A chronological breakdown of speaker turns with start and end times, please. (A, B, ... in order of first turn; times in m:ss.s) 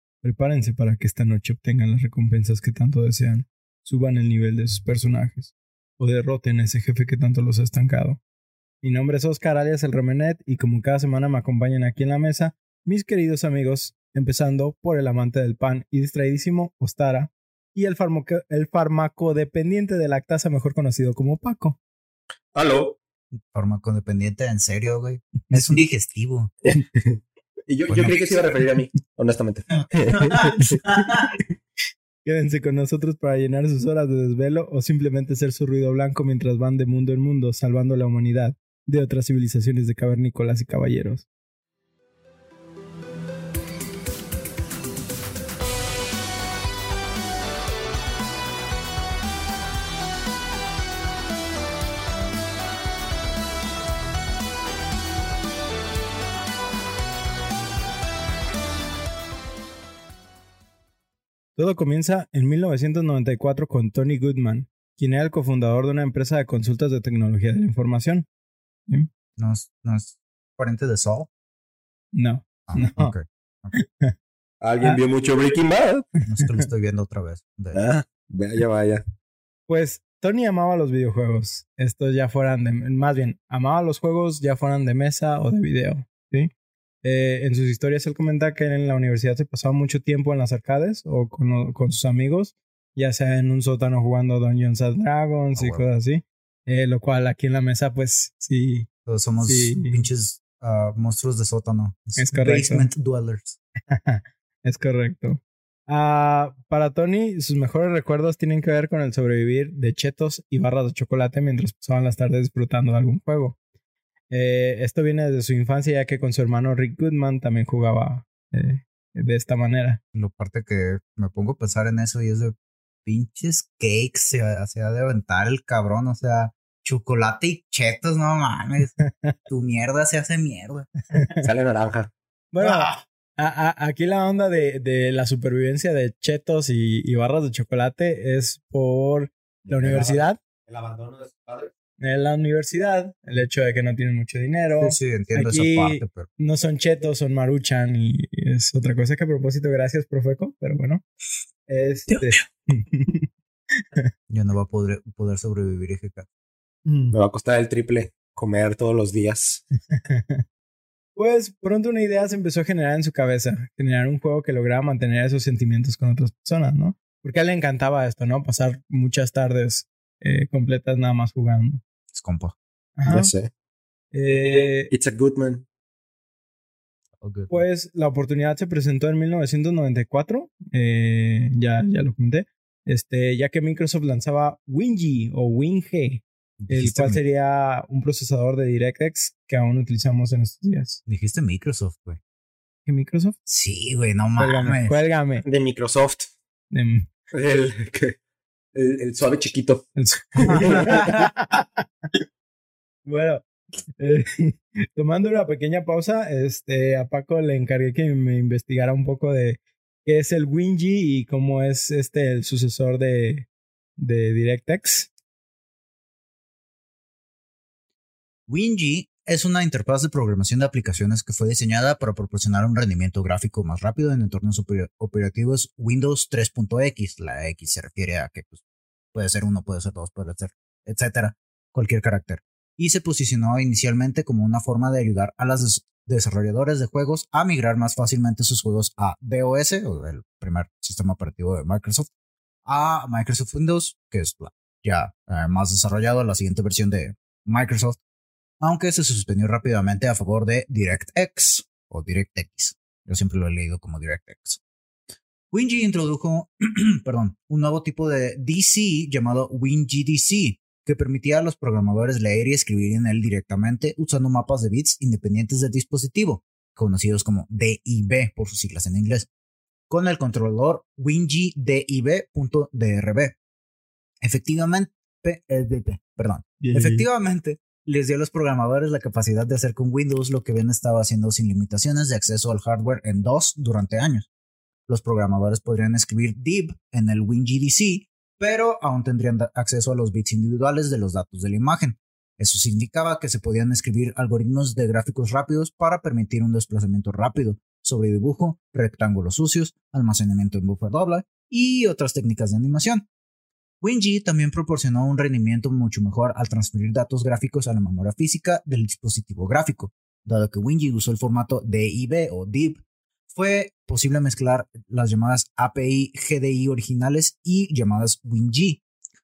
0:00.2-0:08.2 A
0:08.8-0:21.8 A
0:22.5-0:23.0 B
0:23.5-0:26.5 C
0:26.6-0:30.8 B
0:27.9-0:28.1 C
0:30.3-0:31.3 C
0:32.2-0:41.3 A
1:01.6-1:08.3 A
1:09.4-1:11.3 C
1:12.1-1:13.2 A
1:12.7-1:13.7 C
1:13.8-1:14.1 A
1:14.6-1:16.1 B
1:16.3-1:17.8 C
1:17.7-1:19.0 B
1:19.7-1:26.5 A
1:27.0-1:38.9 A
1:35.6-1:35.8 C
1:39.1-1:43.6 C
1:39.4-1:40.0 A
1:42.2-1:42.9 A
1:43.9-1:53.6 A
1:54.3-2:00.0 A
2:00.2-2:02.5 C
2:03.0-2:08.9 C
2:09.0-2:09.4 A
2:09.5-2:10.9 C
2:11.4-2:12.1 B
2:12.5-2:20.4 A
2:12.6-2:13.0 C
2:19.8-2:21.7 B
2:22.0-2:31.0 A
2:24.8-2:26.3 C
2:31.7-2:33.3 A
2:34.3-2:36.3 C
2:36.9-2:37.2 A
2:37.1-2:39.6 B
2:39.9-2:40.4 A
2:41.2-2:51.8 A
2:52.1-2:52.6 C
2:53.0-2:53.3 A
2:53.1-2:53.5 B
2:54.1-2:54.9 A
2:54.9-2:55.6 B
2:57.2-2:57.6 C
2:57.5-3:11.0 A
3:06.6-3:07.2 C
3:11.1-3:12.2 C
3:12.9-3:13.4 A
3:13.5-3:15.0 C
3:14.4-3:15.4 A
3:15.4-3:16.3 B
3:16.7-3:17.1 A
3:17.3-3:18.2 B
3:18.7-3:21.0 B
3:20.0-3:21.8 A
3:20.5-3:21.3 C
3:23.1-3:23.5 A
3:24.0-3:35.1 A
3:38.5-3:48.6 C
3:49.1-4:02.1 C
4:02.7-4:08.0 C
4:08.6-4:14.6 C
4:15.5-4:29.3 C
4:29.9-4:33.4 C
4:34.2-4:44.3 C
4:36.6-4:37.1 A
4:44.9-5:03.1 C
5:03.8-5:18.8 C